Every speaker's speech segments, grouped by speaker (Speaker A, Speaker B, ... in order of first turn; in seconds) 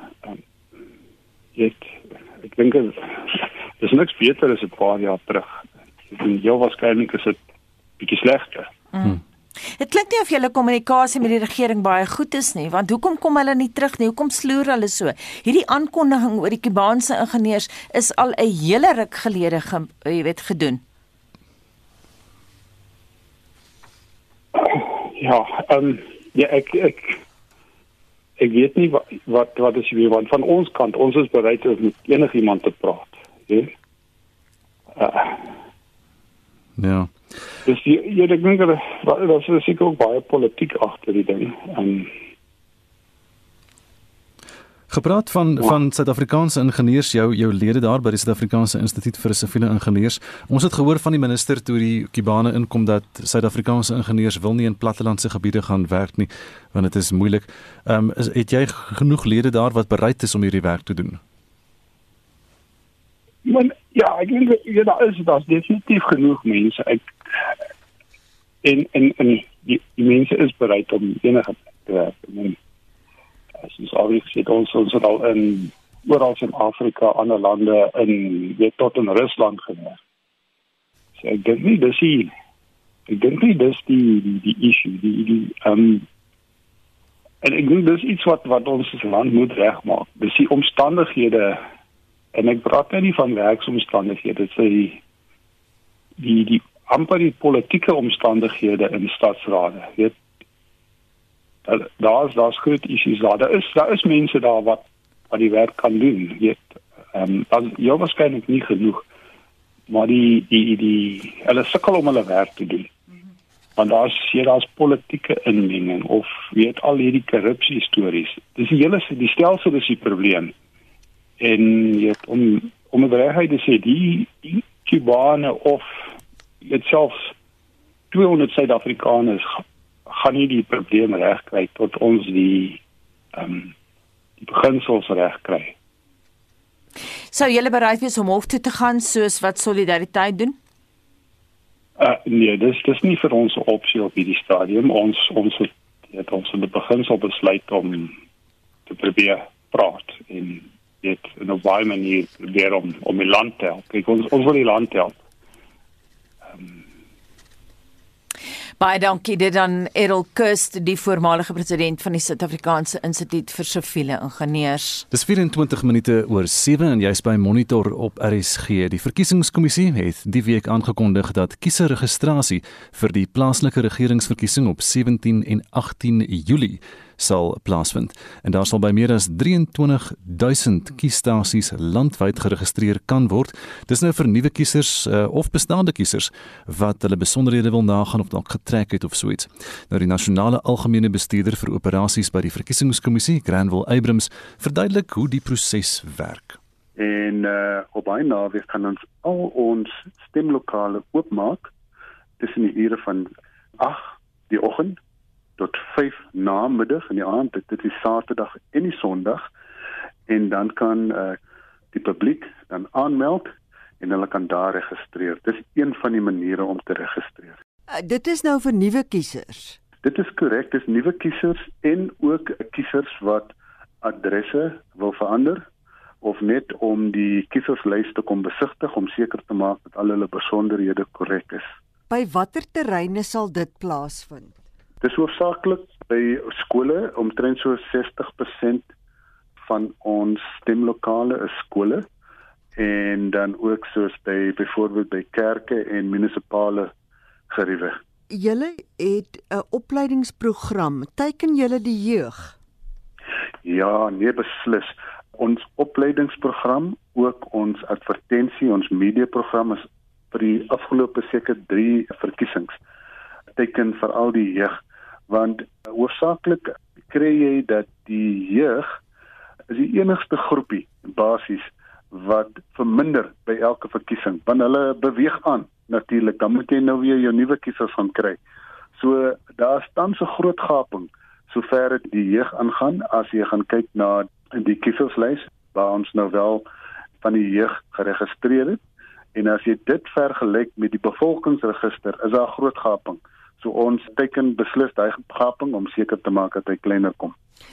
Speaker A: 1.6-7.4, 8.0-8.7, 24.6-27.2, 28.4-33.7, 35.0-35.5, 37.6-42.1, 63.4-67.5, 68.6-72.6, 73.6-80.0, 81.2-82.3, 83.1-86.1, 87.4-91.6, 92.3-95.0, 96.2-100.2, 101.7-109.0, 109.9-112.9, 113.8-120.5, 121.4-126.1, 126.6-127.3, 128.1-132.8, 133.3-133.7, 134.4-135.7, 142.0-148.1, 148.9-155.2, 156.5-156.8
Speaker B: 8.9-9.2, 9.7-20.8, 137.3-140.6, 158.8-165.1
Speaker C: 36.8-37.1, 44.9-61.2, 165.1-196.6
Speaker D: 197.0-201.7, 202.4-205.0, 205.6-209.5, 210.3-211.4, 211.9-217.6, 220.0-225.7, 226.2-231.7, 235.0-238.9, 239.6-242.1, 242.8-246.9, 247.5-248.0, 253.6-262.8, 263.6-269.0, 269.7-278.4, 279.0-286.6, 287.2-288.8, 289.3-297.4
Speaker E: 217.9-219.8, 232.1-234.6, 248.3-252.6